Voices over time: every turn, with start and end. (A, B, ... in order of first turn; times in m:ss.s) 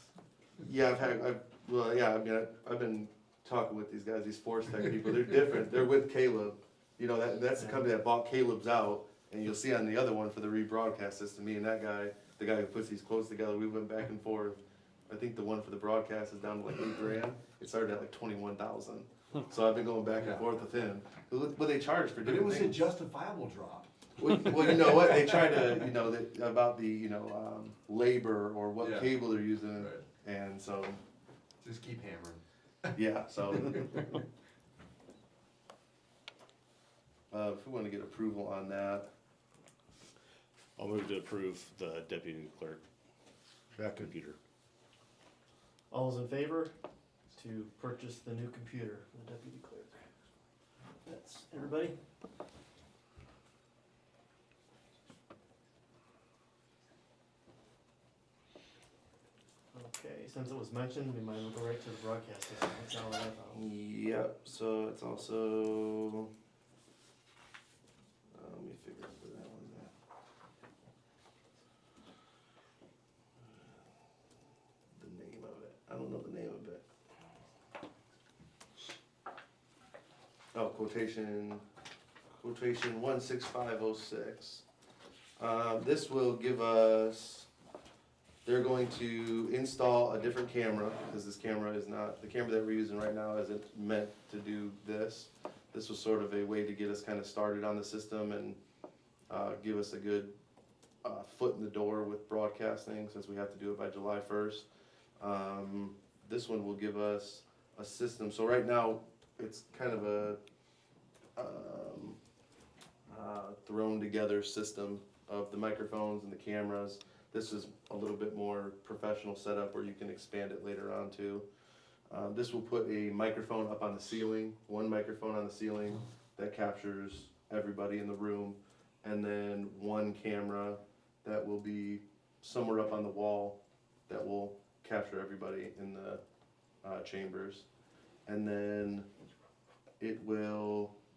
0:00.6-0:22.9 A
0:07.6-0:07.9 B
0:20.1-0:20.5 C
0:22.2-0:23.9 C
0:24.2-0:31.0 A
0:28.8-0:30.0 C
0:31.6-0:32.9 C
0:32.9-0:34.2 A
0:37.3-0:39.1 A
0:40.8-0:42.8 D
0:43.8-0:44.4 D
0:45.9-0:46.7 B
0:47.3-0:50.0 B
0:51.0-0:52.0 B
0:59.7-1:03.6 B
1:03.5-1:06.3 A
1:08.3-1:09.9 A
1:15.0-1:16.8 A
1:20.5-1:21.6 A
1:22.4-1:24.6 A
1:25.4-1:27.5 A
1:28.4-1:38.6 A
1:39.3-1:40.4 A
1:41.0-1:44.7 A
1:45.2-1:50.4 A
1:51.4-1:52.2 A
1:53.1-2:01.5 A
2:02.1-2:16.2 A
2:16.8-2:17.7 A
2:18.3-2:19.1 A
2:20.0-2:20.9 A